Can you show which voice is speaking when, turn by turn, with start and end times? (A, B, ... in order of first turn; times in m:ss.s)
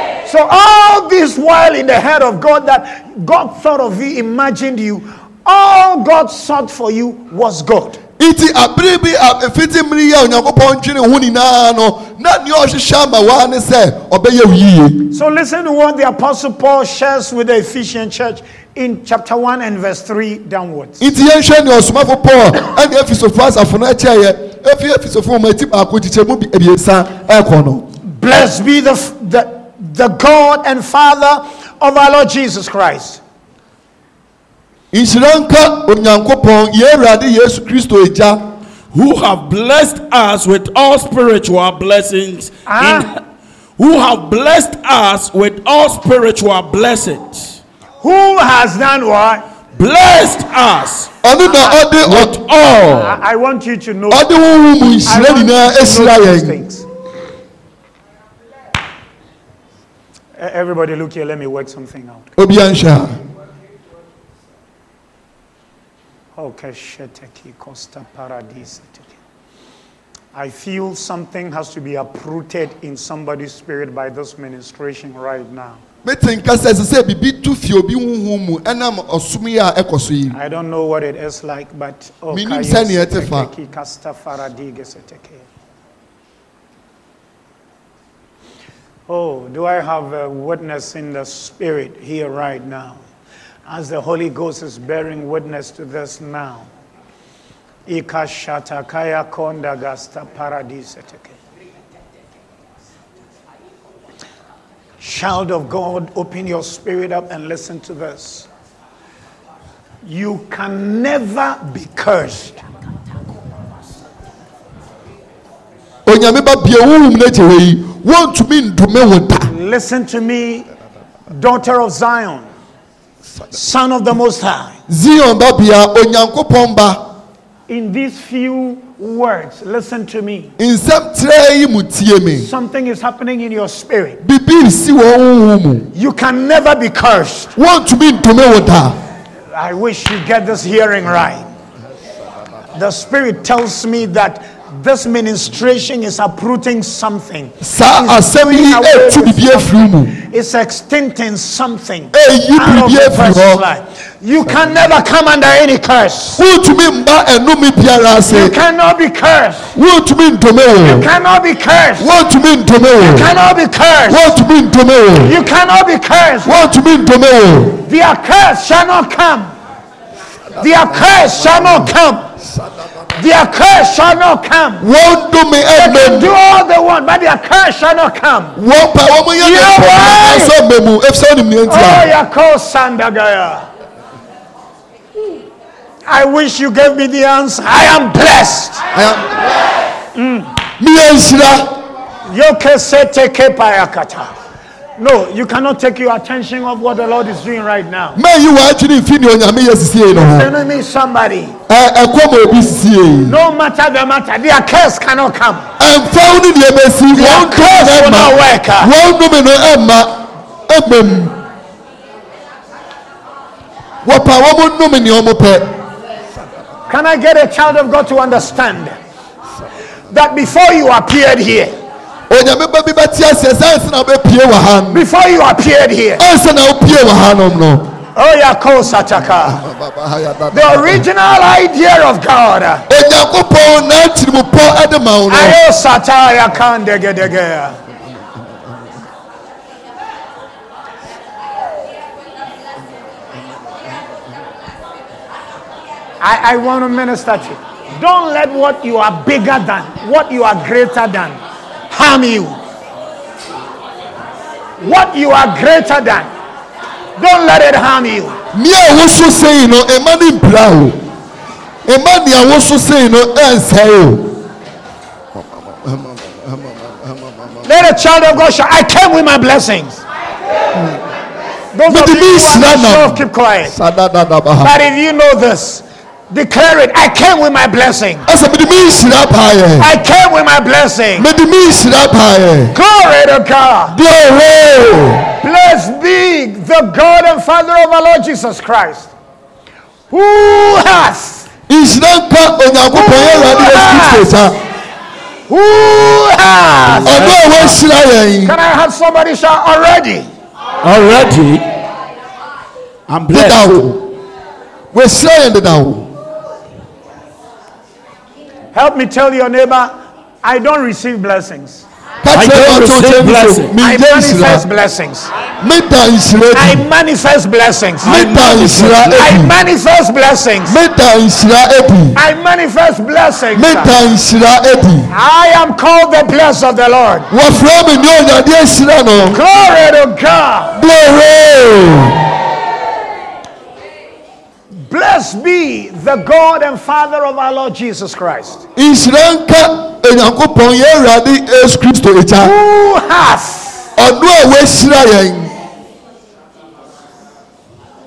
0:00.2-0:08.0 A
0:08.2-0:15.1 B
0:15.1-0:21.1 A
0:21.0-0:27.9 B
0:28.0-0:33.2 A
0:34.9-0:38.4 B
0:38.9-0:43.2 C
0:42.6-0:43.1 A
0:43.8-0:47.6 C
0:48.0-0:49.4 A
0:49.7-0:51.1 C
0:51.2-0:52.4 B
0:51.4-0:51.8 A
0:52.0-0:53.2 C
0:52.8-0:54.2 A
0:54.1-0:56.6 B
0:55.0-0:56.8 A
1:00.4-1:02.3 A
1:02.4-1:03.2 B
1:06.3-1:09.2 A
1:10.3-1:15.8 A
1:16.0-1:20.4 B
1:20.3-1:25.4 A
1:22.3-1:23.5 B
1:29.1-1:33.0 A
1:33.7-1:36.7 A
1:37.9-1:41.4 A
1:45.0-1:48.5 A
1:50.0-1:52.6 A
1:56.0-1:59.5 B
1:59.4-2:00.7 A
2:01.3-2:02.5 A
2:03.5-2:04.8 A
2:04.9-2:07.0 B
2:07.7-2:10.5 A
2:10.6-2:12.5 B
2:12.3-2:14.2 A
2:14.2-2:15.9 B
2:15.9-2:17.5 A
2:17.6-2:19.0 B
2:19.5-2:21.5 A
2:22.7-2:36.4 A
2:27.6-2:30.2 B
2:32.1-2:33.6 B
2:36.4-2:38.6 B
2:38.3-2:39.7 A
2:39.7-2:41.1 B
2:40.8-2:42.1 A
2:42.0-2:43.3 B
2:43.0-2:44.4 A
2:44.1-2:45.4 B
2:45.2-2:46.6 A
2:46.4-2:47.8 B
2:47.8-2:49.5 A
2:50.5-2:52.9 B
2:50.6-2:52.3 A
2:53.1-2:54.8 A
2:54.8-2:56.3 B
2:55.7-2:58.6 A
2:58.6-3:02.1 B
2:59.3-3:00.5 A
3:01.7-3:03.7 A
3:06.0-3:08.8 A
3:08.9-3:09.7 B
3:10.1-3:10.5 A
3:10.8-3:11.8 B
3:12.2-3:14.3 A
3:15.0-3:18.2 A
3:18.1-3:20.5 B
3:20.1-3:21.6 A
3:21.7-3:23.4 B
3:23.2-3:25.7 A
3:25.8-3:31.4 B
3:27.1-3:28.9 A
3:34.0-3:35.8 B
3:36.9-3:39.0 A
3:40.1-3:41.7 A
3:42.3-3:45.0 B
3:44.9-3:46.2 A
3:46.2-3:48.0 B
3:48.1-3:49.6 A
3:49.3-3:51.0 B
3:50.5-3:52.8 A
3:52.9-3:55.6 B
3:55.3-3:57.8 A
4:06.2-4:12.6 A
4:14.8-4:16.3 A
4:17.2-4:18.4 A
4:18.5-4:21.0 B
4:21.8-4:24.4 B
4:25.3-4:27.7 B
4:27.6-4:30.0 A
4:31.7-4:33.8 A
4:31.9-4:34.7 B
4:34.6-4:38.3 A
4:38.3-4:39.9 B
4:39.8-4:41.3 A
4:41.2-4:42.7 B
4:42.7-4:44.0 A
4:43.9-4:45.3 B
4:45.4-4:49.1 A
4:50.1-4:51.5 A
4:51.7-4:54.6 B
4:52.9-4:54.3 A
4:55.5-4:57.7 A
4:57.0-4:58.6 B
4:58.4-5:00.3 A
5:00.8-5:01.7 C
5:03.1-5:03.8 C
5:03.3-5:04.1 B
5:04.9-5:06.1 B
5:08.7-5:11.8 A
5:12.2-5:14.6 B
5:12.3-5:13.7 C
5:13.8-5:15.3 A
5:15.6-5:16.8 B
5:16.5-5:18.2 A
5:18.0-5:19.2 C
5:18.0-5:19.5 B
5:19.1-5:20.8 A
5:20.6-5:22.2 B
5:22.1-5:23.9 A
5:23.5-5:25.1 B
5:25.1-5:27.3 A
5:27.3-5:29.4 B
5:29.3-5:30.8 A
5:30.7-5:32.3 B
5:34.7-5:38.6 A
5:38.8-5:42.5 B
5:42.4-5:43.9 A
5:44.0-5:45.5 B